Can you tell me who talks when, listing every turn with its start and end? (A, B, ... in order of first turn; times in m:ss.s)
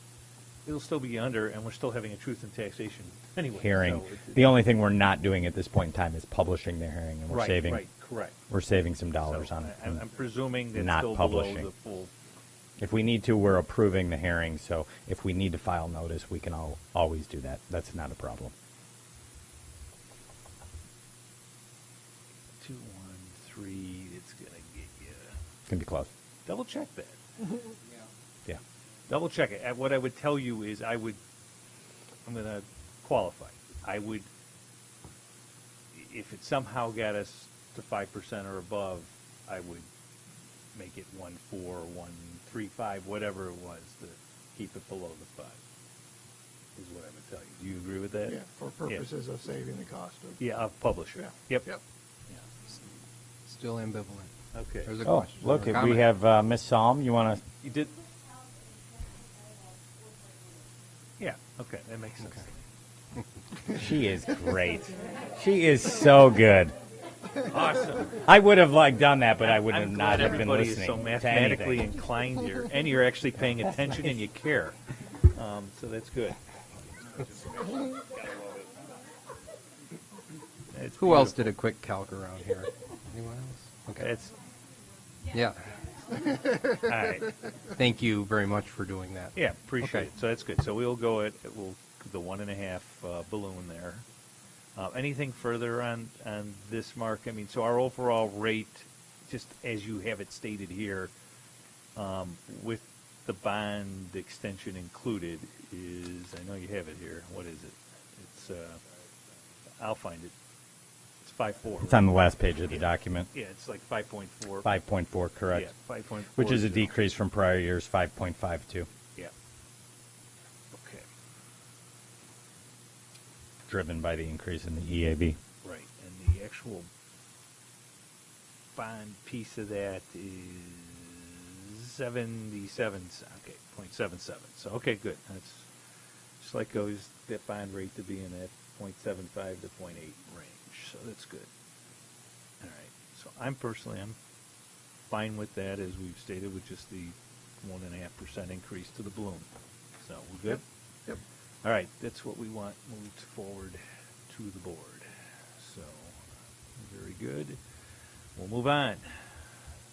0:00.7-0:04.6 A
0:03.6-0:07.8 B
0:07.3-0:08.4 A
0:08.5-0:10.0 B
0:09.2-0:12.1 A
0:10.7-0:11.7 B
0:12.8-0:18.5 B
0:22.6-0:25.4 A
0:25.7-0:26.1 B
0:26.4-0:27.6 A
0:29.1-0:31.2 A
0:32.2-0:34.3 A
0:35.9-0:39.9 A
0:40.7-0:45.6 A
0:46.8-0:49.1 A
0:48.3-0:50.4 C
0:50.4-0:51.8 A
0:53.4-0:54.3 D
0:54.5-0:55.0 A
0:54.8-0:56.1 D
0:55.0-0:57.4 B
0:57.6-0:58.0 A
1:01.2-1:02.6 A
1:03.7-1:06.8 B
1:07.4-1:08.2 A
1:08.1-1:11.9 B
1:09.4-1:16.4 A
1:20.7-1:21.5 A
1:21.0-1:24.1 D
1:24.0-1:24.3 A
1:25.3-1:26.5 D
1:26.6-1:27.4 A
1:27.7-1:30.1 D
1:29.3-1:34.0 A
1:34.8-1:41.1 A
1:42.0-1:48.8 A
1:49.8-1:50.3 A
1:51.2-1:52.1 A
1:51.8-1:53.3 B
1:52.7-1:54.8 A
1:54.6-1:55.7 B
1:55.5-1:57.0 A
1:56.3-1:58.9 B
2:00.7-2:01.1 A
2:03.7-2:05.4 B
2:05.6-2:06.9 A
2:08.8-2:15.7 A
2:16.4-2:21.5 A
2:22.6-2:24.2 A
2:25.1-2:29.5 A
2:30.0-2:30.6 A
2:31.6-2:36.2 A
2:36.8-2:37.6 A
2:38.4-2:39.3 A